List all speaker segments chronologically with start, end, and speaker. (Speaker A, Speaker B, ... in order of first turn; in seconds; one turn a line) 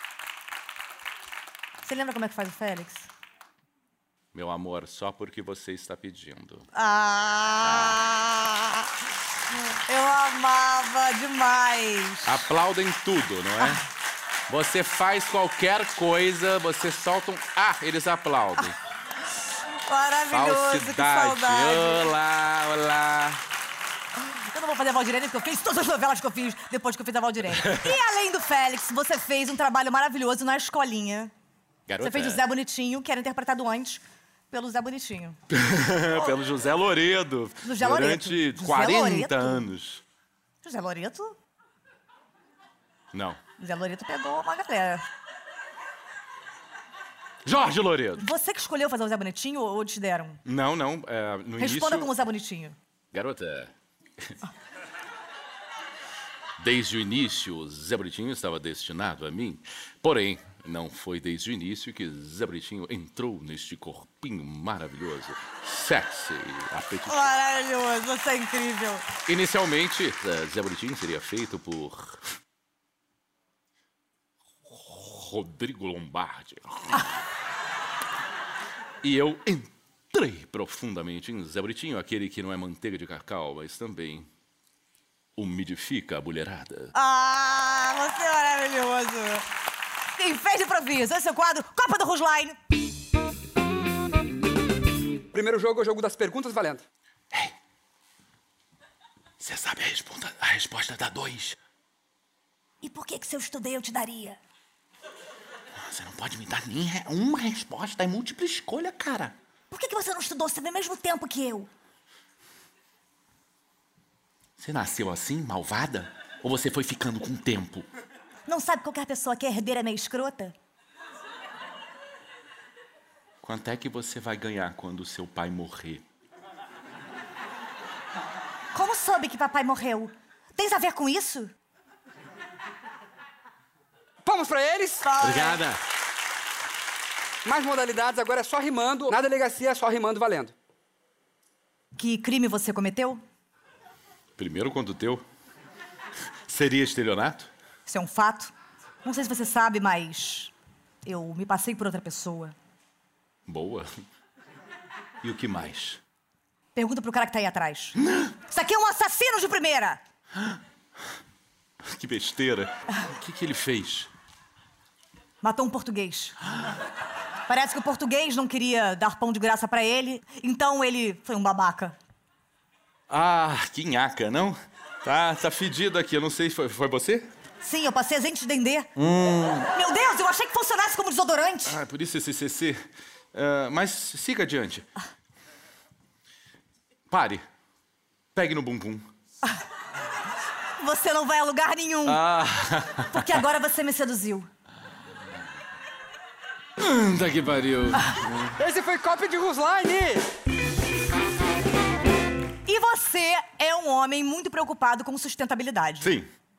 Speaker A: 1.8-3.1
Speaker B: 4.3-6.7
Speaker A: 6.7-8.9
Speaker B: 7.6-8.0
Speaker A: 9.7-12.4
Speaker B: 12.2-13.8
Speaker B: 14.5-18.8
Speaker A: 19.8-22.1
Speaker B: 20.3-23.4
Speaker A: 24.1-31.3
Speaker B: 27.5-28.0
Speaker B: 31.9-32.4
Speaker A: 32.0-35.4
Speaker B: 35.5-40.0
Speaker A: 37.6-39.7
Speaker A: 40.6-41.3
Speaker B: 43.1-43.4
Speaker A: 43.6-45.0
Speaker B: 47.4-48.3
Speaker A: 48.2-50.4
Speaker B: 50.4-52.1
Speaker A: 51.6-52.8
Speaker B: 53.1-54.4
Speaker B: 56.6-67.3
Speaker A: 67.1-69.1
Speaker B: 69.3-72.3
Speaker B: 74.7-77.2
Speaker B: 79.0-84.3
Speaker B: 85.3-86.9
Speaker A: 86.9-89.5
Speaker A: 90.1-92.6
Speaker C: 95.3-96.8
Speaker B: 99.4-101.6
Speaker A: 102.8-104.4
Speaker B: 105.7-109.3
Speaker A: 109.7-111.7
Speaker B: 114.6-117.9
Speaker A: 118.5-120.5
Speaker B: 123.4-126.0
Speaker A: 128.7-131.5
Speaker C: 134.2-135.3
Speaker A: 135.0-135.6
Speaker B: 135.2-135.8
Speaker C: 137.4-140.5
Speaker A: 141.9-143.2
Speaker B: 144.4-145.2
Speaker B: 146.4-147.5
Speaker A: 147.9-148.5
Speaker A: 149.0-150.5
Speaker A: 151.0-152.5
Speaker B: 153.4-154.0
Speaker B: 155.2-156.0
Speaker A: 156.7-160.0
Speaker B: 158.0-158.3
Speaker B: 160.3-160.6
Speaker B: 161.8-164.1
Speaker A: 165.4-166.3
Speaker A: 167.4-172.0
Speaker B: 173.1-177.3
Speaker A: 177.6-178.9
Speaker B: 179.0-179.7
Speaker A: 179.5-181.8
Speaker B: 181.7-184.9
Speaker B: 187.1-187.4
Speaker B: 188.3-189.1
Speaker A: 190.8-192.2
Speaker B: 192.0-193.4
Speaker A: 193.1-194.5
Speaker B: 196.8-198.6
Speaker C: 198.6-200.3
Speaker A: 202.7-206.1
Speaker B: 206.0-206.3